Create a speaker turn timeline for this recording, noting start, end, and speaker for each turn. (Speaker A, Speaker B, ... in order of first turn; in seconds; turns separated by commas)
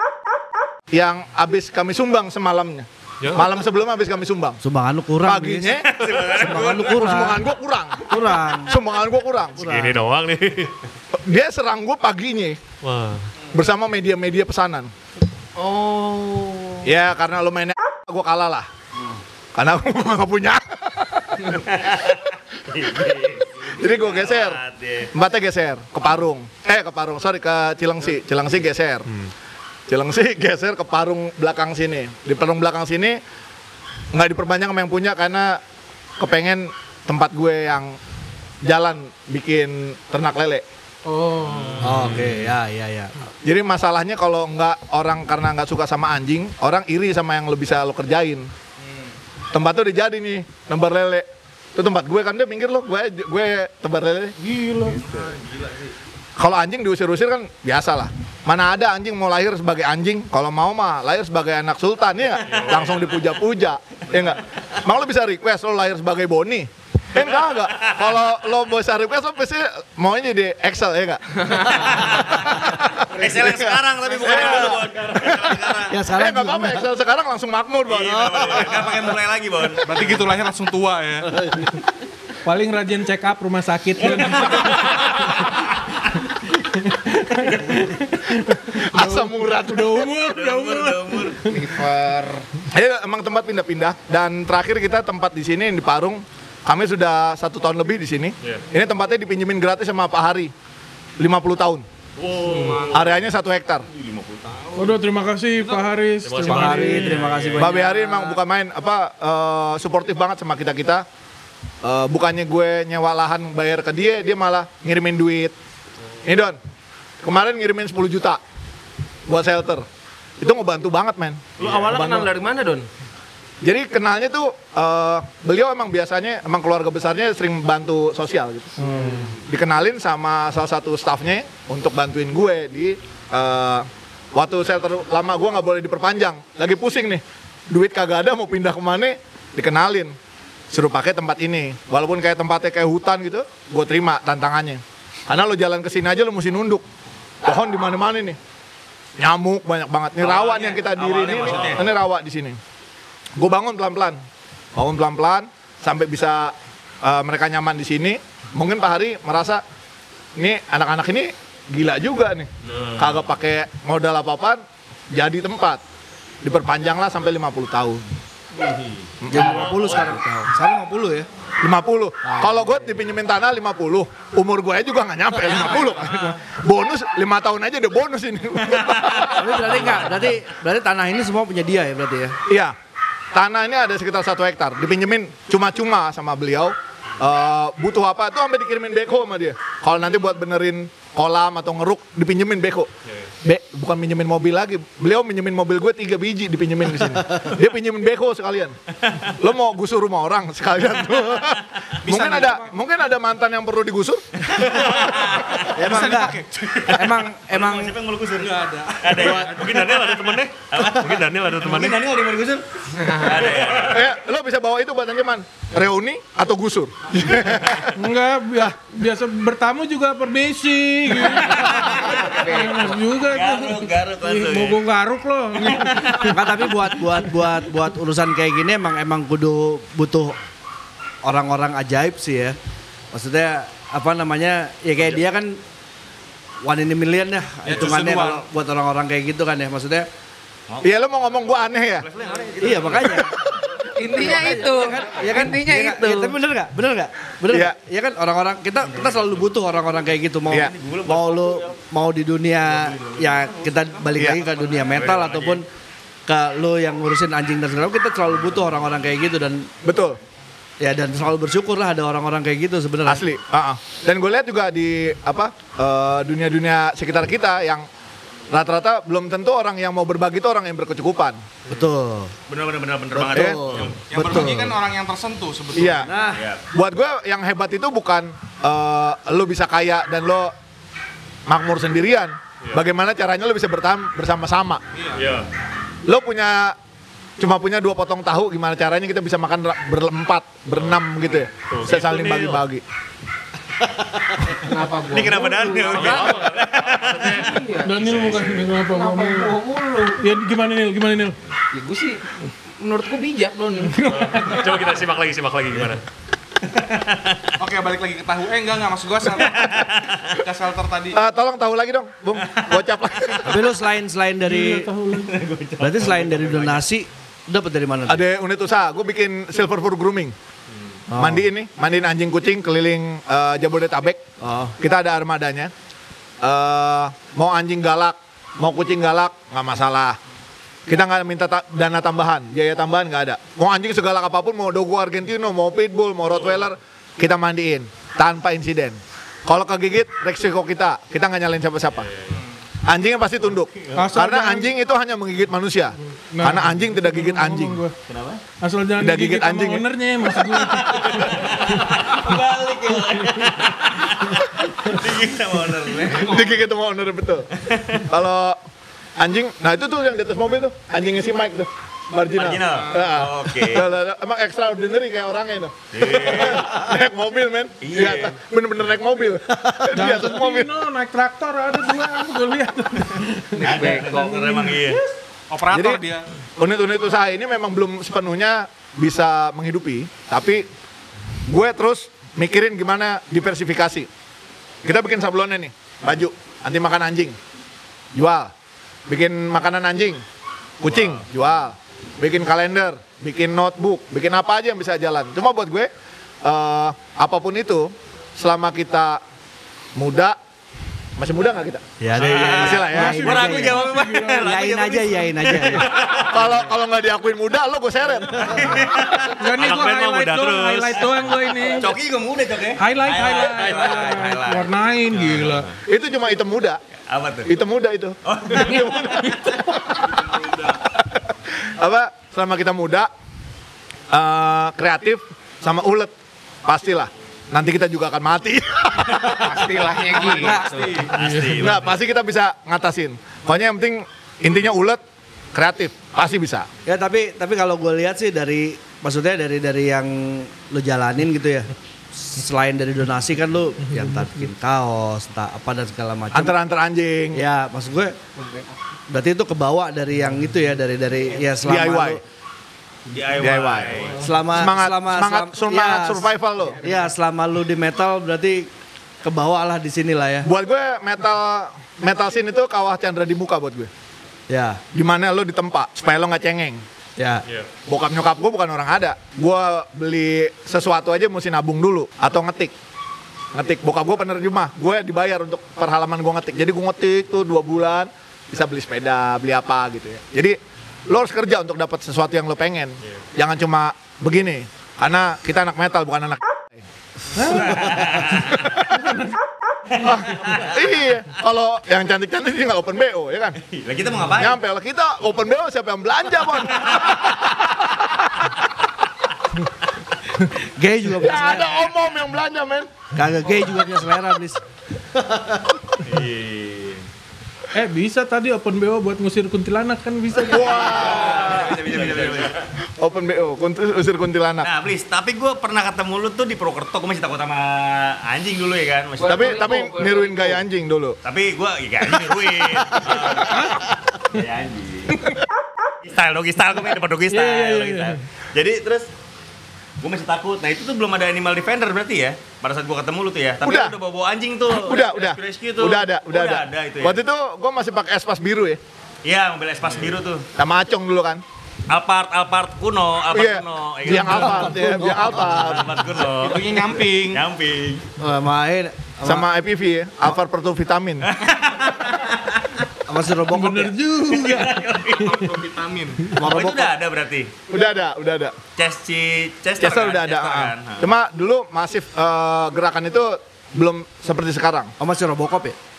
Speaker A: 0.9-4.6, Speaker B: 3.2-3.5, Speaker C: 4.6-7.4, Speaker A: 5.2-8.0, Speaker D: 5.8-7.0, Speaker C: 8.0-8.8, Speaker A: 8.6-9.7, Speaker C: 9.6-10.0, Speaker B: 9.6-10.8, Speaker A: 11.1-12.6, Speaker B: 12.8-13.3, Speaker A: 13.5-14.9, Speaker E: 15.6-16.9, Speaker A: 16.8-18.7, Speaker A: 19.5-22.1, Speaker D: 21.7-25.1, Speaker A: 23.6-24.6, Speaker A: 25.1-29.1, Speaker A: 29.9-33.2, Speaker A: 34.1-35.6, Speaker A: 36.2-38.0, Speaker A: 38.6-40.6, Speaker E: 41.1-41.8, Speaker B: 41.6-42.4, Speaker C: 41.8-43.1, Speaker A: 43.4-48.5, Speaker A: 49.5-54.4, Speaker F: 54.4-55.0, Speaker D: 55.0-55.8, Speaker A: 56.4-75.6, Speaker B: 62.5-63.1, Speaker D: 67.2-68.1, Speaker D: 71.9-75.9, Speaker C: 75.9-76.8, Speaker A: 76.1-78.8, Speaker D: 77.9-80.2, Speaker G: 79.8-81.5, Speaker F: 82.4-85.4, Speaker F: 86.8-91.6, Speaker A: 88.7-90.1, Speaker D: 90.3-91.4, Speaker E: 91.5-92.5, Speaker A: 92.7-100.5, Speaker A: 101.2-101.8, Speaker B: 102.2-103.0, Speaker G: 102.5-102.9, Speaker D: 102.5-102.9, Speaker A: 102.9-103.8, Speaker D: 103.9-105.0, Speaker F: 104.8-107.2, Speaker G: 105.6-105.9, Speaker B: 106.2-107.8, Speaker C: 106.4-108.4, Speaker A: 107.6-111.0, Speaker A: 111.8-115.5, Speaker A: 116.2-116.6, Speaker A: 117.2-118.4, Speaker A: 119.3-119.8, Speaker A: 120.4-122.3, Speaker E: 121.6-122.9, Speaker A: 123.6-140.1, Speaker F: 128.8-129.3, Speaker A: 140.7-146.8, Speaker A: 147.4-148.4, Speaker A: 149.2-152.6, Speaker D: 150.2-151.9, Speaker A: 153.4-154.2, Speaker A: 154.8-159.6, Speaker A: 160.4-164.6, Speaker B: 162.7-163.1, Speaker A: 165.1-165.8, Speaker A: 166.4-168.0, Speaker A: 169.2-169.7, Speaker C: 169.3-171.3, Speaker B: 169.4-170.2, Speaker A: 171.6-180.3, Speaker C: 179.3-182.4, Speaker A: 182.5-182.7, Speaker A: 183.3-192.9, Speaker A: 193.4-198.7, Speaker A: 199.4-204.4, Speaker D: 202.1-202.5, Speaker G: 202.2-202.5, Speaker D: 204.4-205.7, Speaker C: 205.7-206.4, Speaker G: 205.8-206.8, Speaker D: 206.7-214.1, Speaker C: 206.9-207.9, Speaker G: 208.4-209.8, Speaker B: 209.2-212.0, Speaker E: 212.9-213.5, Speaker A: 213.7-217.9, Speaker F: 217.9-226.7, Speaker D: 221.5-222.4, Speaker E: 221.5-222.9, Speaker D: 223.3-224.8, Speaker D: 225.6-226.6, Speaker C: 226.3-230.3, Speaker C: 231.2-232.6, Speaker C: 233.1-235.6, Speaker C: 236.6-240.1, Speaker G: 237.6-238.4, Speaker A: 240.8-242.1, Speaker D: 242.0-243.4, Speaker C: 242.6-243.3, Speaker E: 243.9-246.3, Speaker C: 244.0-255.7, Speaker A: 247.5-247.7, Speaker D: 248.8-249.5, Speaker D: 250.5-251.7, Speaker D: 252.7-253.6, Speaker B: 254.9-255.6, Speaker C: 256.3-259.7, Speaker A: 259.8-260.2, Speaker C: 260.8-263.2, Speaker A: 263.1-267.9, Speaker A: 268.5-271.4, Speaker C: 271.7-272.3, Speaker D: 272.5-274.0, Speaker C: 273.1-274.8, Speaker A: 273.3-273.6, Speaker G: 274.1-276.0, Speaker A: 274.1-274.5, Speaker A: 275.7-276.1, Speaker C: 276.0-276.4, Speaker D: 276.3-276.6, Speaker A: 276.7-280.5, Speaker A: 281.5-284.8, Speaker G: 284.9-285.2, Speaker B: 285.1-285.5, Speaker A: 286.1-286.8, Speaker A: 287.4-292.8, Speaker B: 291.6-292.6, Speaker E: 294.5-296.5, Speaker D: 295.1-297.6, Speaker B: 295.9-298.7, Speaker E: 297.1-297.9, Speaker F: 297.8-299.5, Speaker E: 298.8-300.2, Speaker F: 300.2-301.4, Speaker E: 301.7-302.2, Speaker E: 302.8-304.6, Speaker F: 304.0-304.8, Speaker B: 304.1-306.0, Speaker D: 306.7-307.5, Speaker G: 307.6-309.8, Speaker D: 309.4-310.3, Speaker G: 310.4-311.2, Speaker A: 311.1-313.6, Speaker D: 312.5-313.4, Speaker C: 313.4-314.9, Speaker F: 314.4-315.4, Speaker D: 315.1-316.8, Speaker C: 315.8-318.2, Speaker A: 318.1-320.3, Speaker C: 321.1-321.4, Speaker A: 321.2-324.2, Speaker C: 324.4-324.7, Speaker A: 324.8-325.7, Speaker A: 326.4-330.2, Speaker A: 330.9-342.1, Speaker A: 342.9-347.8, Speaker F: 343.9-344.7, Speaker F: 346.3-347.9, Speaker D: 348.1-348.4, Speaker F: 348.6-351.4, Speaker A: 349.0-349.9, Speaker A: 350.5-351.1, Speaker D: 351.1-356.5, Speaker A: 356.2-358.6, Speaker D: 357.7-358.0, Speaker A: 359.2-370.7, Speaker D: 362.3-363.9, Speaker D: 365.9-366.7, Speaker D: 367.8-368.3, Speaker F: 369.9-373.7, Speaker E: 373.5-374.7, Speaker D: 373.6-375.0, Speaker F: 374.5-375.0, Speaker G: 375.5-376.2, Speaker A: 375.7-376.0, Speaker A: 376.6-380.7, Speaker A: 381.5-384.1, Speaker A: 384.8-387.4, Speaker A: 388.1-388.5, Speaker A: 389.1-390.2, Speaker A: 390.8-395.9, Speaker D: 390.9-391.2, Speaker A: 396.4-399.2, Speaker A: 399.9-400.4, Speaker A: 401.2-401.8, Speaker C: 402.0-405.9, Speaker D: 402.1-406.5, Speaker A: 402.5-403.2, Speaker F: 402.9-404.5, Speaker A: 406.3-409.0, Speaker D: 408.4-409.4, Speaker F: 409.4-411.9, Speaker B: 409.5-411.2, Speaker D: 411.6-415.7, Speaker F: 412.8-415.7, Speaker A: 415.8-416.8, Speaker D: 417.1-417.5, Speaker A: 417.4-419.4, Speaker D: 418.2-419.8, Speaker A: 421.6-423.1, Speaker A: 424.1-426.1, Speaker A: 426.6-429.7, Speaker E: 429.3-430.6, Speaker G: 430.1-431.5, Speaker D: 430.4-431.9, Speaker C: 430.4-430.8, Speaker F: 431.2-431.5, Speaker A: 431.6-435.0, Speaker A: 435.5-436.7, Speaker C: 436.9-446.5, Speaker A: 446.3-447.4, Speaker C: 447.3-448.1, Speaker E: 448.4-448.6, Speaker C: 449.1-452.2, Speaker A: 451.6-452.2, Speaker D: 453.1-454.2, Speaker A: 453.4-453.9, Speaker C: 454.2-456.3, Speaker A: 454.5-456.8, Speaker C: 456.8-458.7, Speaker C: 459.2-460.5, Speaker A: 460.4-463.9, Speaker C: 464.5-464.8, Speaker A: 464.9-466.8, Speaker C: 467.2-467.4, Speaker A: 467.9-472.7, Speaker A: 473.5-480.6, Speaker A: 481.1-486.8, Speaker F: 487.4-487.8, Speaker D: 487.4-488.6, Speaker D: 489.9-490.6, Speaker A: 490.0-493.6, Speaker D: 493.6-494.6, Speaker A: 494.4-498.1, Speaker C: 500.5-501.8, Speaker A: 501.1-502.9, Speaker C: 503.1-504.6, Speaker C: 505.1-505.6, Speaker D: 506.0-507.0, Speaker F: 507.7-511.0, Speaker A: 510.5-511.6, Speaker D: 510.5-512.6, Speaker G: 510.8-512.5, Speaker A: 513.0-514.7, Speaker D: 514.6-519.6, Speaker E: 519.2-520.6, Speaker A: 519.2-521.2, Speaker D: 521.2-523.7, Speaker F: 523.5-523.8, Speaker D: 524.3-525.2, Speaker D: 526.0-529.1, Speaker F: 527.3-528.2, Speaker D: 530.0-537.2, Speaker A: 533.6-533.9, Speaker A: 534.7-538.8, Speaker D: 539.2-540.5, Speaker A: 540.5-541.4, Speaker D: 541.9-544.8, Speaker A: 543.3-546.0, Speaker C: 544.3-545.5, Speaker D: 545.4-548.0, Speaker G: 546.2-547.4, Speaker C: 548.2-549.5, Speaker A: 549.2-551.3, Speaker D: 551.2-552.8, Speaker C: 553.1-553.9, Speaker F: 553.5-554.8, Speaker D: 554.3-555.5, Speaker G: 555.1-556.3, Speaker C: 556.3-556.9, Speaker D: 556.4-557.5, Speaker A: 557.7-558.5, Speaker D: 558.8-561.1, Speaker A: 559.8-564.9, Speaker C: 565.0-565.8